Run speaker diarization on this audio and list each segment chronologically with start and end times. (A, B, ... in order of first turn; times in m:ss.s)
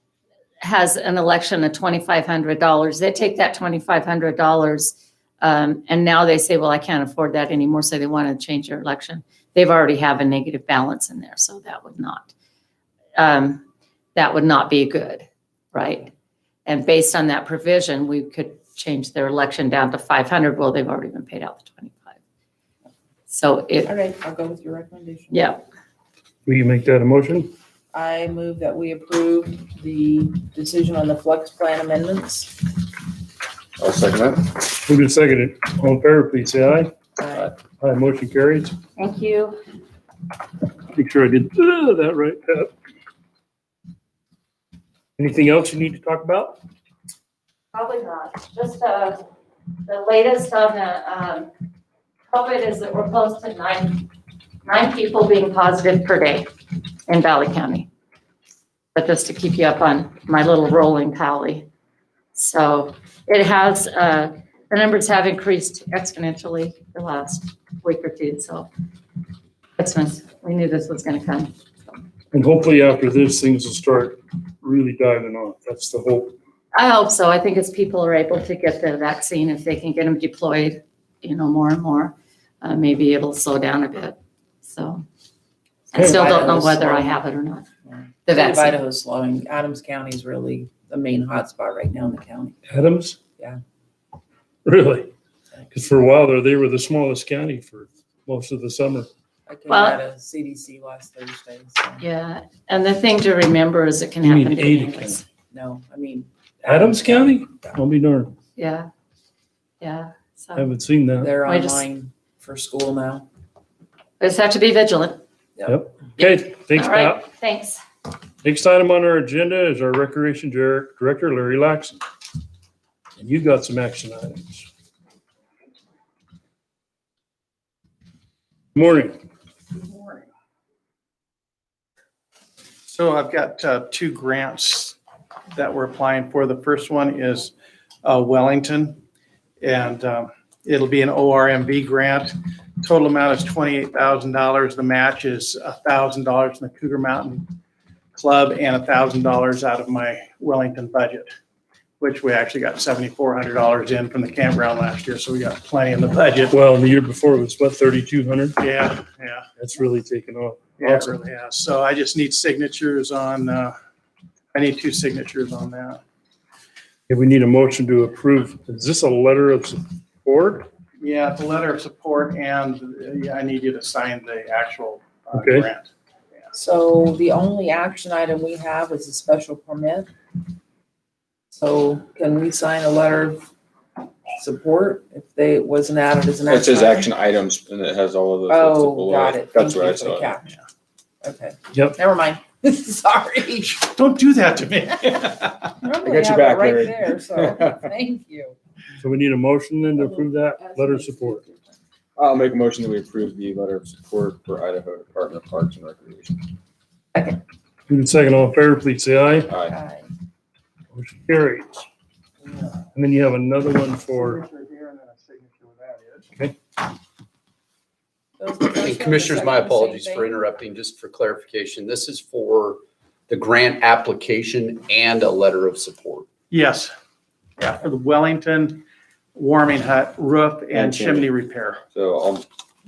0:00.6-0:12.3 A
0:13.2-0:13.6 A
0:14.2-0:16.1 A
0:16.6-0:22.2 A
0:23.3-0:23.9 A
0:23.8-0:25.5 B
0:25.3-0:25.6 A
0:26.4-0:27.5 C
0:27.9-0:32.7 B
0:33.8-0:34.7 D
0:34.9-0:36.9 C
0:37.2-0:37.5 B
0:37.8-0:38.7 C
0:39.0-0:39.6 A
0:40.9-0:42.7 C
0:45.2-0:46.6 C
0:47.7-0:49.2 A
0:49.8-0:51.5 A
0:52.3-0:54.1 A
0:54.6-0:56.5 A
0:57.1-0:57.9 A
0:58.9-1:01.7 A
1:02.3-1:08.7 A
1:09.8-1:11.9 A
1:12.3-1:16.3 C
1:16.7-1:25.0 A
1:25.9-1:27.6 A
1:26.0-1:27.2 B
1:27.9-1:32.6 B
1:28.2-1:28.8 A
1:32.7-1:33.2 C
1:34.6-1:35.1 C
1:35.7-1:39.1 C
1:39.5-1:42.0 B
1:39.7-1:40.0 A
1:42.0-1:45.2 A
1:44.2-1:45.2 C
1:45.5-1:47.8 B
1:46.7-1:48.3 C
1:48.6-1:48.9 A
1:49.8-1:50.7 A
1:50.6-1:51.3 C
1:51.2-1:53.3 B
1:51.4-1:51.8 A
1:54.2-1:55.2 A
1:55.7-1:57.2 C
1:56.2-1:57.8 A
1:58.4-2:02.0 C
2:03.2-2:04.6 C
2:08.7-2:09.1 C
2:09.7-2:10.2 E
2:12.9-2:15.0 E
2:15.5-2:17.5 E
2:18.0-2:19.0 E
2:19.6-2:27.4 E
2:28.1-2:31.3 E
2:32.0-2:36.6 E
2:36.5-2:38.6 C
2:38.6-2:39.4 E
2:39.6-2:41.1 C
2:40.8-2:43.7 E
2:44.5-2:46.0 E
2:47.1-2:50.7 C
2:51.0-2:55.9 E
2:55.3-2:55.7 C
2:56.5-3:00.1 B
3:01.5-3:03.5 B
3:04.4-3:07.1 B
3:06.4-3:10.3 D
3:08.5-3:10.6 B
3:11.2-3:13.8 B
3:13.7-3:15.6 E
3:15.8-3:18.6 B
3:16.0-3:17.9 D
3:19.0-3:21.4 C
3:20.0-3:21.5 B
3:22.2-3:26.5 D
3:27.9-3:29.5 C
3:29.5-3:29.7 D
3:29.6-3:30.1 B
3:30.9-3:31.8 C
3:32.9-3:34.4 C
3:34.1-3:36.3 E
3:38.4-3:40.3 B
3:38.7-3:46.2 F
3:46.5-3:46.9 E
3:47.6-3:51.8 E
3:50.7-3:51.3 D
3:51.9-3:52.4 D